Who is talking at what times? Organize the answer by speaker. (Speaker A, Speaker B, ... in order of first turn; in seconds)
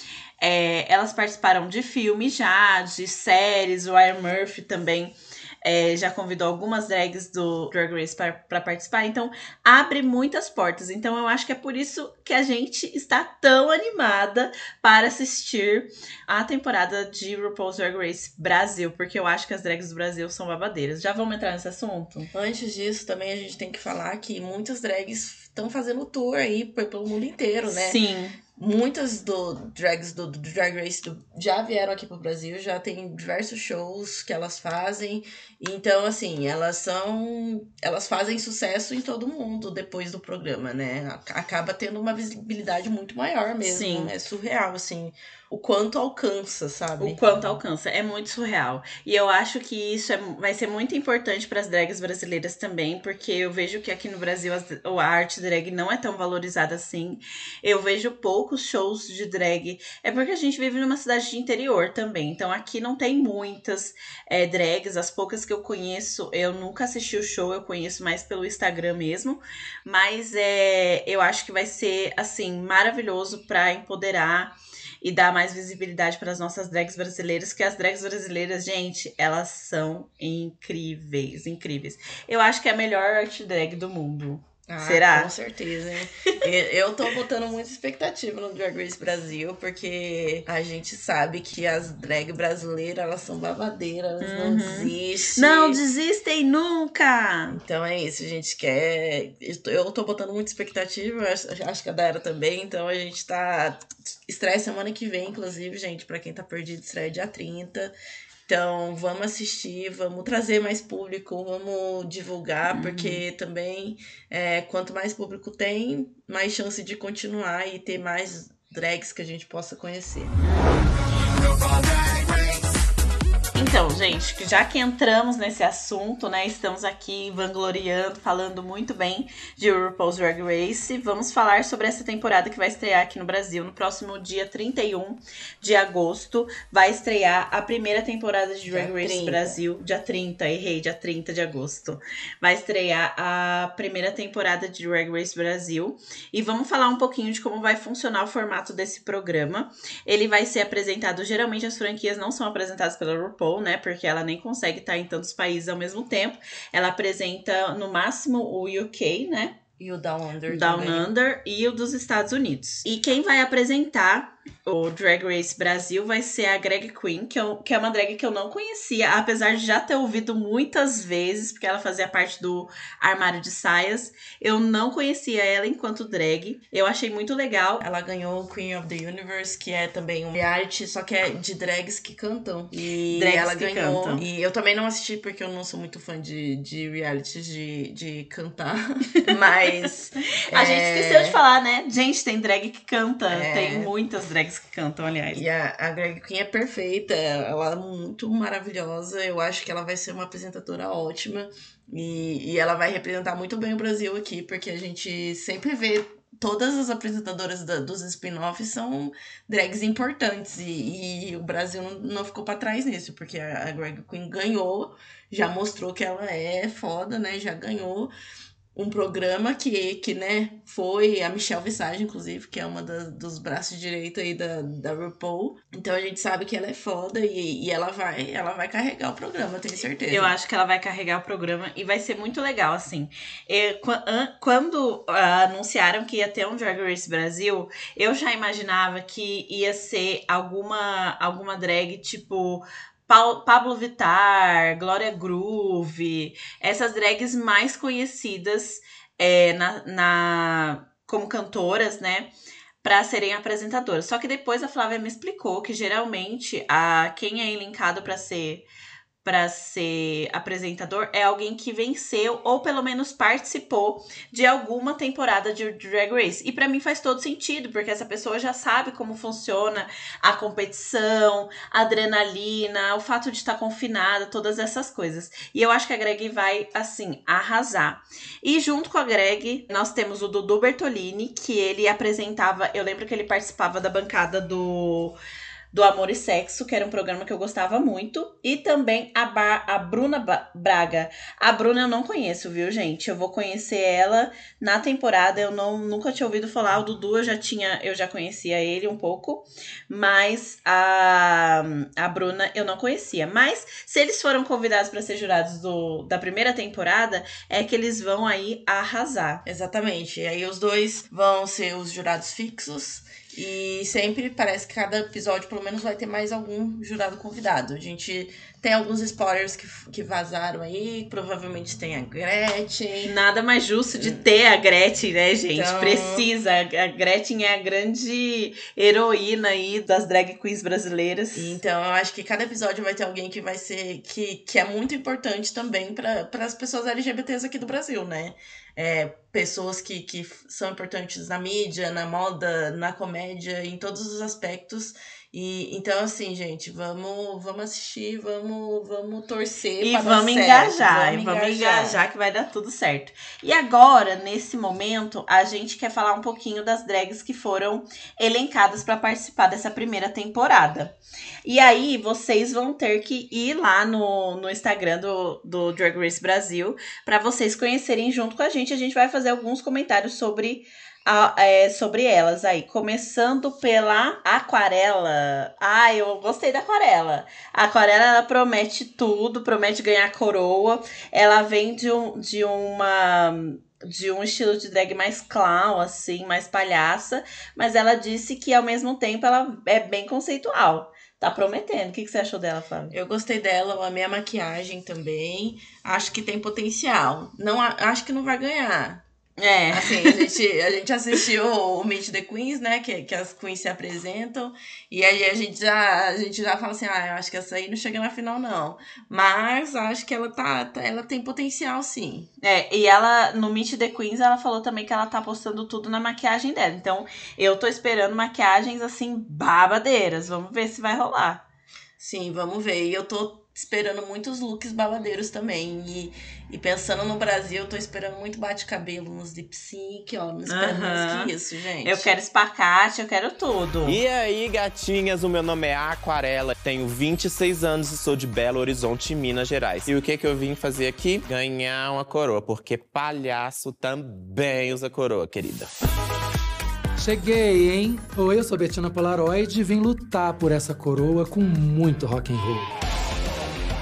Speaker A: 0.4-22.3, 27.7-28.4, 43.6-44.1, 47.0-85.3, 94.2-97.6, 112.7-113.2, 120.4-121.0, 123.5-159.6, 160.5-177.8, 182.8-184.3, 190.5-195.4, 230.1-252.3, 252.8-258.7, 259.2-285.2, 285.7-309.4, 323.0-331.6, 349.8-392.9, 399.4-400.3, 412.4-421.4, 430.5-431.3, 431.8-434.0
Speaker B: 22.3-28.0, 28.6-47.2, 84.7-95.8, 97.5-107.9, 108.5-120.3, 138.7-139.6, 159.8-161.1, 177.8-191.4, 193.3-193.9, 195.3-218.1, 218.8-230.3, 309.4-323.2, 323.9-324.2, 325.5-326.3, 331.4-352.0, 392.9-399.0, 399.7-412.3, 422.0-432.1
Speaker C: 433.8-445.7
Speaker D: 447.0-452.7